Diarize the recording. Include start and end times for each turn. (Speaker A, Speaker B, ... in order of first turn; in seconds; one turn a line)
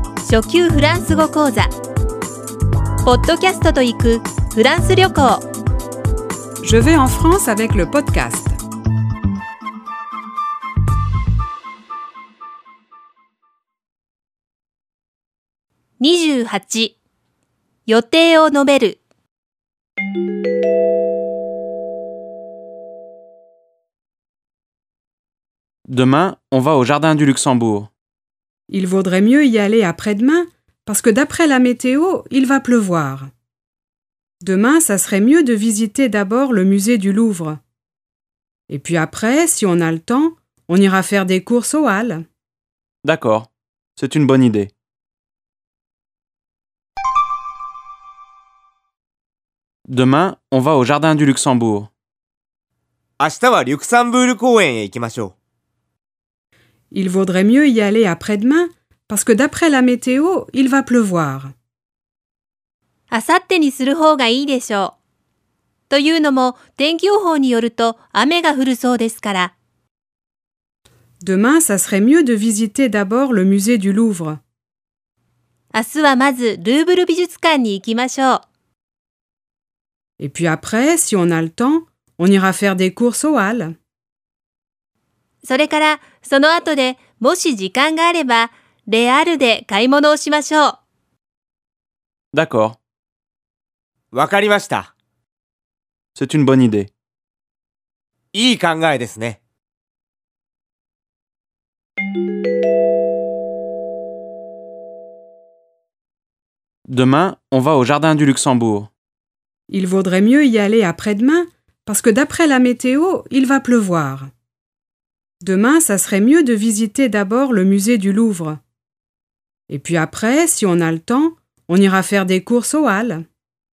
Speaker A: 0.2-1.7
Speaker A: 3.0-5.5
Speaker B: 6.6-8.6
Speaker A: 16.0-16.9
Speaker A: 17.9-19.0
Speaker C: 25.9-27.9
Speaker B: 28.7-33.3
Speaker B: 34.4-37.6
Speaker B: 38.7-42.2
Speaker C: 43.0-44.7
Speaker C: 49.9-51.9
Speaker D: 53.2-55.3
Speaker B: 56.9-61.5
Speaker A: 63.1-65.0
Speaker A: 65.9-69.5
Speaker B: 71.2-74.4
Speaker A: 75.7-78.4
Speaker B: 80.2-83.8
Speaker A: 85.4-90.8
Speaker C: 92.3-92.8
Speaker D: 94.1-94.9
Speaker C: 96.2-96.9
Speaker D: 98.3-99.4
Speaker C: 106.9-108.9
Speaker B: 109.7-114.3
Speaker B: 115.4-118.6
Speaker B: 119.7-123.2